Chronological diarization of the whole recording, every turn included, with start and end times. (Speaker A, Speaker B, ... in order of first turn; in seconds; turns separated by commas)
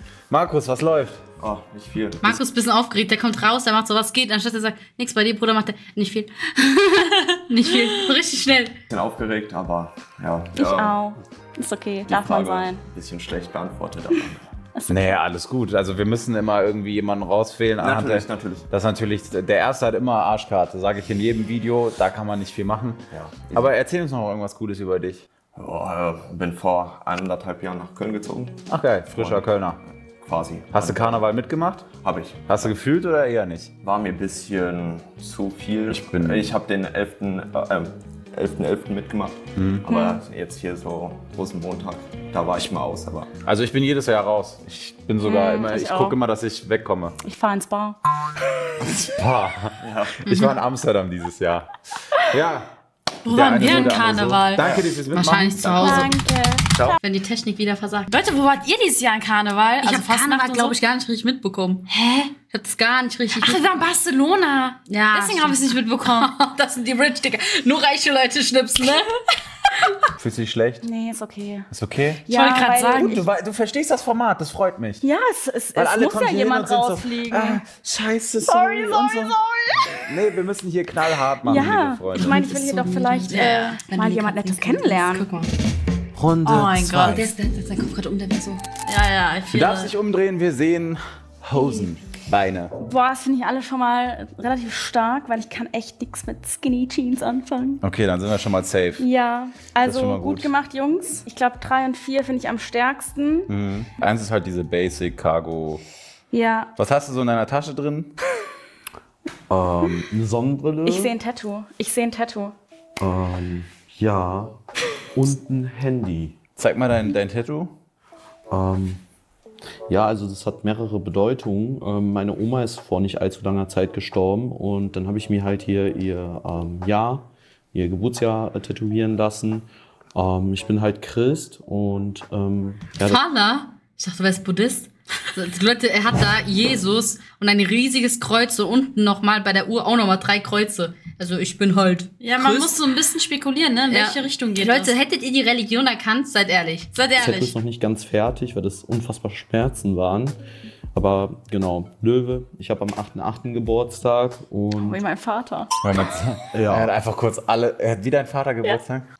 Speaker A: 0.3-1.2, Speaker B: 1.4-2.4, Speaker C: 2.2-8.8, Speaker B: 8.9-11.0, Speaker D: 10.5-12.8, Speaker B: 12.1-14.5, Speaker D: 14.8-15.2, Speaker A: 14.9-25.2, Speaker B: 17.8-18.7, Speaker B: 23.1-23.7, Speaker B: 25.6-29.6, Speaker A: 28.7-29.8, Speaker B: 30.2-31.3, Speaker A: 30.7-31.9, Speaker B: 31.9-32.8, Speaker A: 32.5-33.7, Speaker B: 33.8-43.3, Speaker A: 35.9-36.5, Speaker A: 39.5-39.9, Speaker A: 43.5-47.1, Speaker D: 45.2-46.2, Speaker D: 47.2-48.0, Speaker A: 48.8-51.7, Speaker B: 49.8-50.2, Speaker C: 50.3-50.6, Speaker A: 52.3-52.7, Speaker E: 53.2-54.8, Speaker A: 53.2-56.1, Speaker B: 54.6-55.0, Speaker C: 55.1-56.1, Speaker D: 55.8-57.0, Speaker C: 57.0-58.1, Speaker E: 58.1-60.8, Speaker C: 59.8-61.9, Speaker E: 61.9-62.3, Speaker C: 62.5-63.7, Speaker E: 63.4-66.3, Speaker C: 64.9-69.1, Speaker C: 69.7-70.1, Speaker A: 70.2-70.8, Speaker D: 70.8-71.7, Speaker A: 71.7-72.3, Speaker D: 72.2-73.2, Speaker E: 72.3-73.2, Speaker A: 73.0-75.0, Speaker D: 75.0-77.6, Speaker A: 75.8-79.4, Speaker D: 78.4-80.0, Speaker A: 80.0-82.4, Speaker D: 81.4-85.3, Speaker C: 82.2-85.5, Speaker E: 83.3-83.8, Speaker A: 86.2-87.3, Speaker F: 86.2-86.8, Speaker E: 86.5-87.2, Speaker C: 86.6-88.6, Speaker E: 88.9-89.9, Speaker A: 89.5-92.7, Speaker D: 92.8-97.8, Speaker A: 97.8-99.0, Speaker D: 99.0-103.5, Speaker A: 99.8-100.5, Speaker A: 103.5-105.8, Speaker D: 106.3-106.7, Speaker A: 106.8-108.1, Speaker F: 109.5-111.1, Speaker D: 110.8-112.5, Speaker F: 113.0-114.6, Speaker F: 115.1-116.4, Speaker A: 116.6-117.8, Speaker F: 118.5-119.0, Speaker F: 119.9-133.2, Speaker C: 133.0-142.8, Speaker E: 142.2-144.9, Speaker C: 143.9-146.9, Speaker E: 146.9-147.5, Speaker F: 147.2-150.4, Speaker F: 150.9-155.0, Speaker D: 154.8-155.7, Speaker A: 155.8-159.0, Speaker F: 156.5-156.9